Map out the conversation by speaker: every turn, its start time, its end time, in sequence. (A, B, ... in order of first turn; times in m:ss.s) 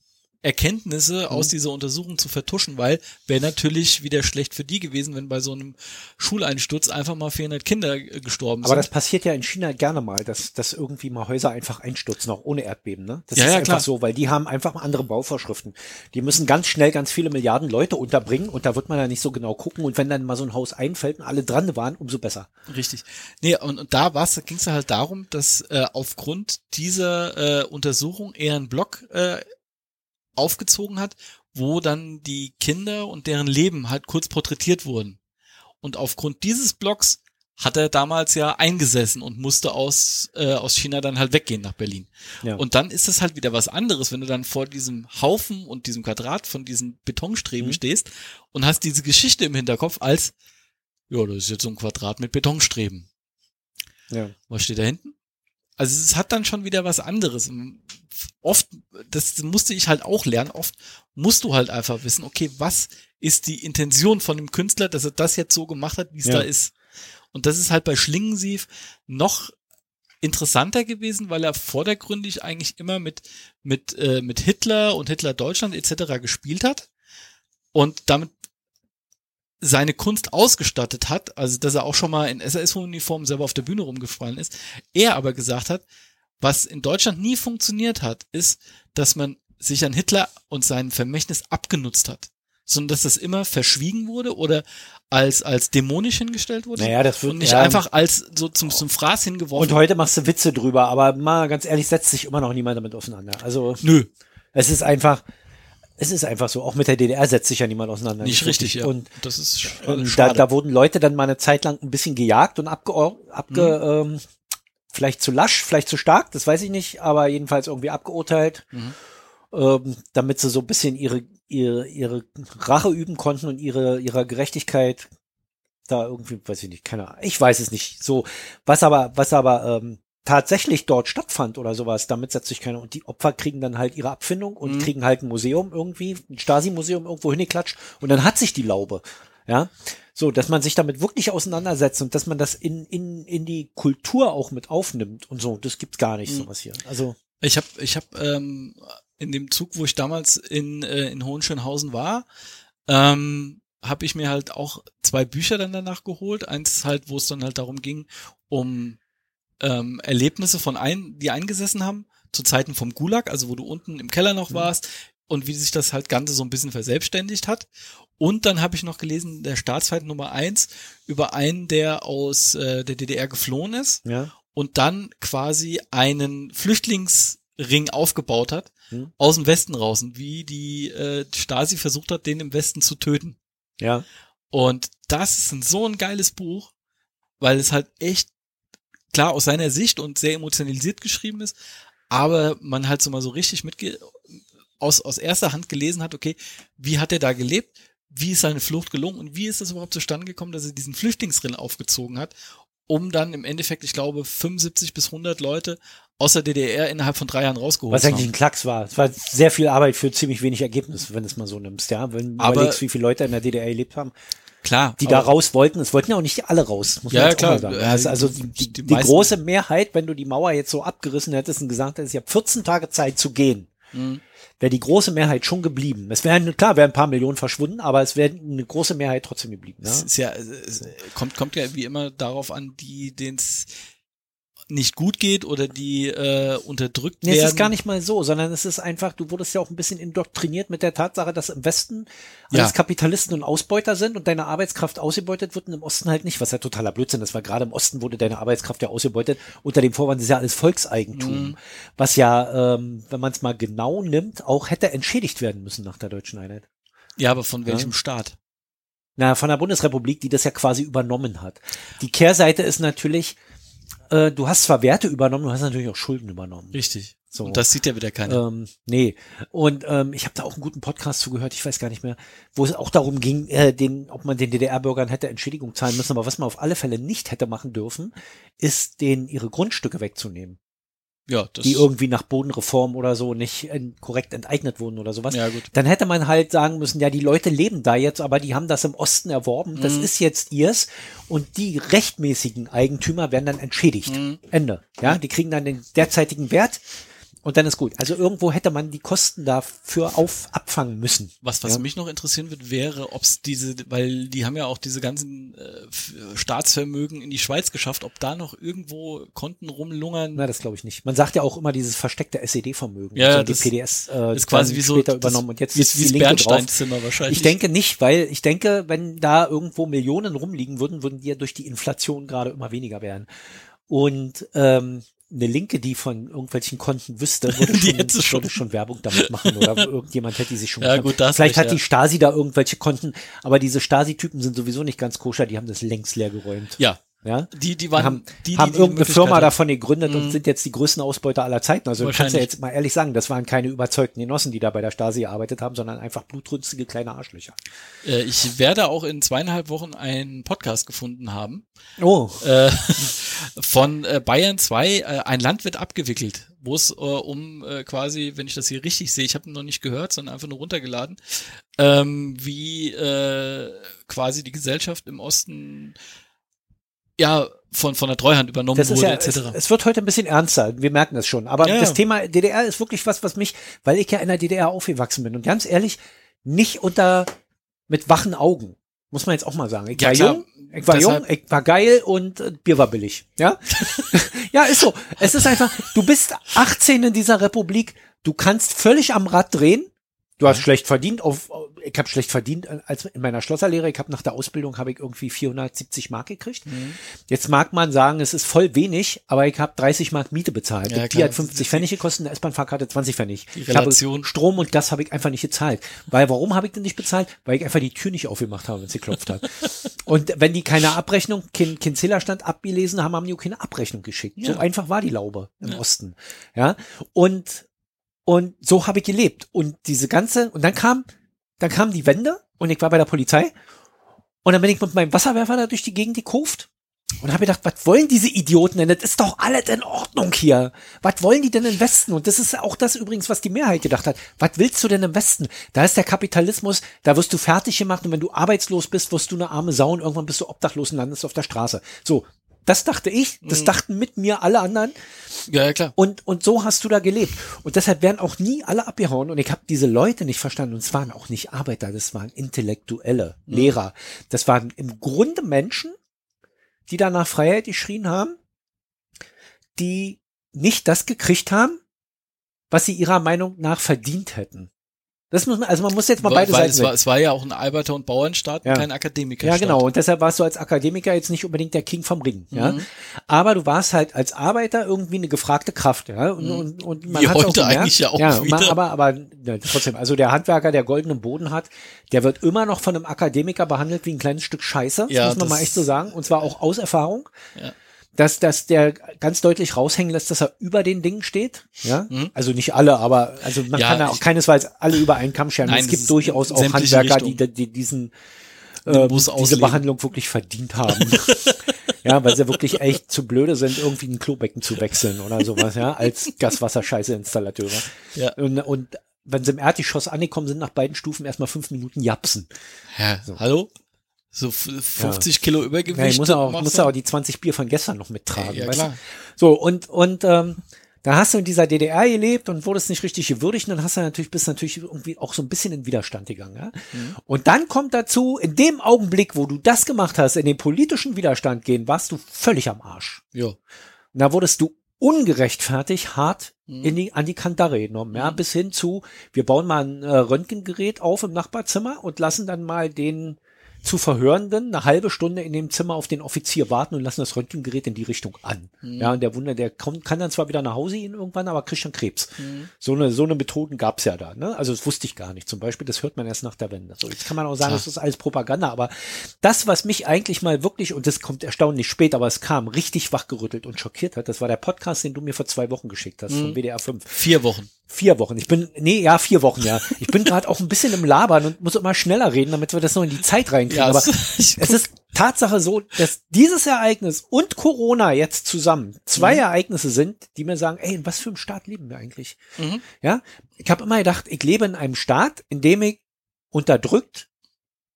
0:00.4-0:08.9 A
0:08.6-0:22.5 B
0:13.3-0:13.8 A
0:22.7-0:29.4 A
0:30.4-0:35.2 A
0:35.8-0:50.3 A
0:51.1-0:53.1 A
0:54.5-0:55.1 A
0:55.8-1:06.7 A
1:07.3-1:09.5 A
1:10.2-1:16.9 A
1:17.7-1:18.3 A
1:19.6-1:25.8 A
1:26.4-1:39.8 A
1:36.8-1:37.8 B
1:39.6-1:43.8 B
1:43.8-1:44.1 A
1:44.5-1:45.2 B
1:46.0-1:49.1 B
1:48.2-1:50.4 A
1:49.7-1:54.2 B
1:53.5-1:53.8 A
1:54.9-1:58.7 B
1:59.5-2:05.1 B
2:05.9-2:27.2 B
2:14.6-2:14.9 A
2:27.4-2:32.2 A
2:32.9-2:39.0 A
2:39.6-2:47.7 A
2:48.2-2:54.0 A
2:54.0-2:54.3 B
2:54.5-3:03.4 A
3:03.8-3:04.0 B
3:04.5-3:06.7 A
3:07.4-3:08.3 A
3:09.1-3:11.5 A
3:12.1-3:22.3 A
3:22.9-3:28.3 A
3:27.9-3:34.1 B
3:32.4-3:32.8 A
3:34.6-3:35.3 A
3:35.0-3:43.7 B
3:37.1-3:39.3 A
3:43.9-3:44.2 A
3:44.6-3:50.1 B
3:49.8-3:53.7 A
3:54.7-3:57.7 A
3:57.2-4:16.6 B
4:11.1-4:11.6 A
4:17.2-4:18.4 A
4:19.2-4:23.4 B
4:24.1-4:26.8 B
4:26.7-4:28.4 A
4:27.3-4:27.6 B
4:28.2-4:40.6 B
4:41.3-4:41.9 A
4:41.6-4:56.8 B
4:45.3-4:45.7 A
4:49.8-4:50.1 A
4:54.1-4:54.4 A
4:57.4-5:01.8 B
5:01.4-5:10.4 A
5:10.4-5:16.7 B
5:13.1-5:13.7 A
5:14.3-5:17.5 A
5:17.3-5:23.3 B
5:23.9-5:47.6 B
5:27.5-5:28.6 A
5:29.1-5:29.8 A
5:30.8-5:31.8 A
5:36.8-5:39.5 A
5:40.0-5:40.4 A
5:42.0-5:42.5 A
5:48.0-5:51.6 A
5:52.0-5:52.5 B
5:52.4-6:06.0 A
6:07.2-6:09.6 A
6:08.8-6:17.3 B
6:11.6-6:12.0 A
6:17.9-6:36.7 B
6:19.9-6:21.2 A
6:25.2-6:25.7 A
6:36.7-6:37.0 A
6:37.3-6:57.6 B
6:40.9-6:41.8 A
6:43.6-6:44.3 A
6:54.4-6:54.6 A
6:58.2-7:01.0 B
7:01.6-7:03.5 B
7:04.4-7:06.7 B
7:07.2-7:24.9 B
7:23.4-7:23.7 A
7:25.5-7:25.9 A
7:26.0-7:35.9 B
7:33.5-7:33.7 A
7:36.9-7:38.4 B
7:39.8-7:41.8 B
7:42.7-7:44.7 B
7:45.3-7:46.9 B
7:46.2-7:49.8 A
7:49.4-8:07.3 B
7:52.5-7:52.8 A
7:56.4-7:58.8 A
8:05.1-8:05.8 A
8:08.2-8:18.1 B
8:13.7-8:14.2 A
8:15.6-8:17.4 A
8:18.8-8:32.5 B
8:18.8-8:19.8 A
8:20.9-8:21.6 A
8:32.9-8:33.7 A
8:34.3-8:36.9 A
8:35.0-8:35.2 B
8:35.9-8:53.2 B
8:38.3-8:39.0 A
8:54.1-9:27.2 B
8:56.7-8:57.0 A
8:58.1-8:58.4 A
9:08.8-9:09.2 A
9:12.4-9:12.7 A
9:26.3-9:26.6 A
9:27.1-9:27.7 A
9:27.9-9:42.4 B
9:33.7-9:34.8 A
9:39.2-9:39.4 A
9:42.6-9:42.8 A
9:42.9-9:46.0 B
9:46.5-9:47.3 B